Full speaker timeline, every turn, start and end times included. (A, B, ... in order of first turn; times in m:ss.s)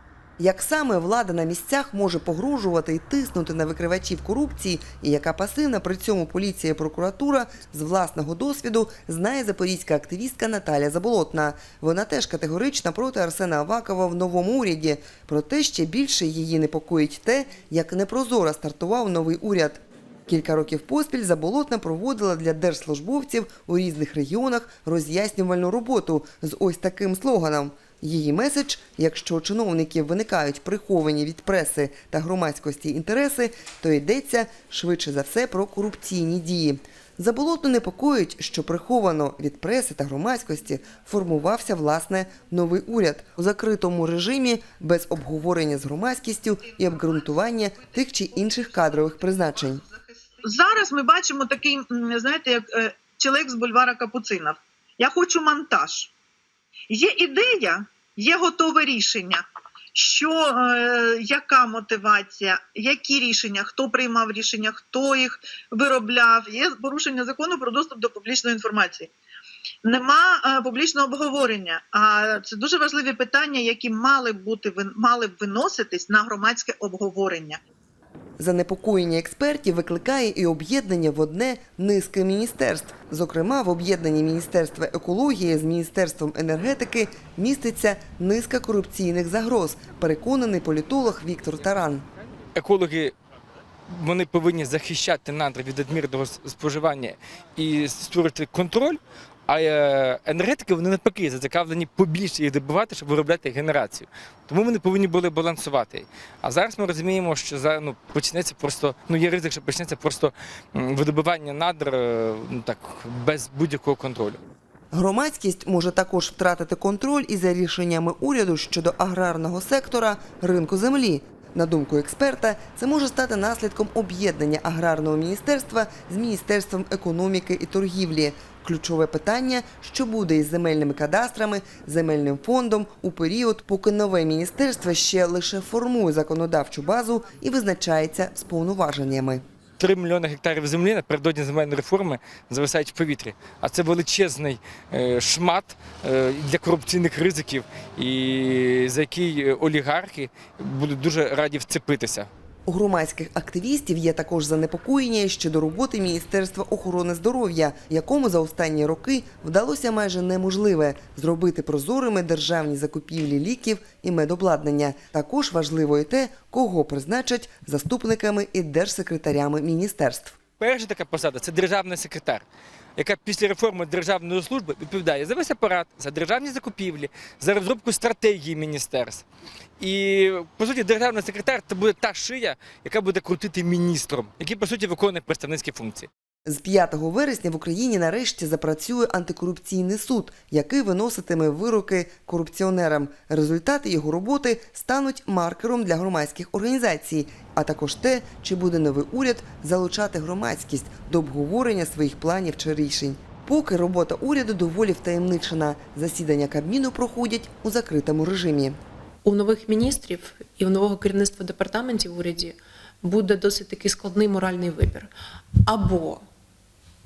0:00.4-0:49.8 A
0:50.4-0:56.1 B
0:56.9-0:59.4 B
0:59.9-1:09.1 B
1:09.8-1:17.6 B
1:18.4-1:32.0 A
1:32.5-1:33.1 C
1:33.9-1:54.4 C
1:54.9-2:19.4 A
2:19.8-2:32.3 C
2:32.7-2:50.4 A
2:50.6-2:52.4 C
2:53.0-2:59.2 C
2:59.8-3:06.1 C
3:06.4-3:28.8 A
3:29.2-3:35.1 D
3:35.6-3:36.2 D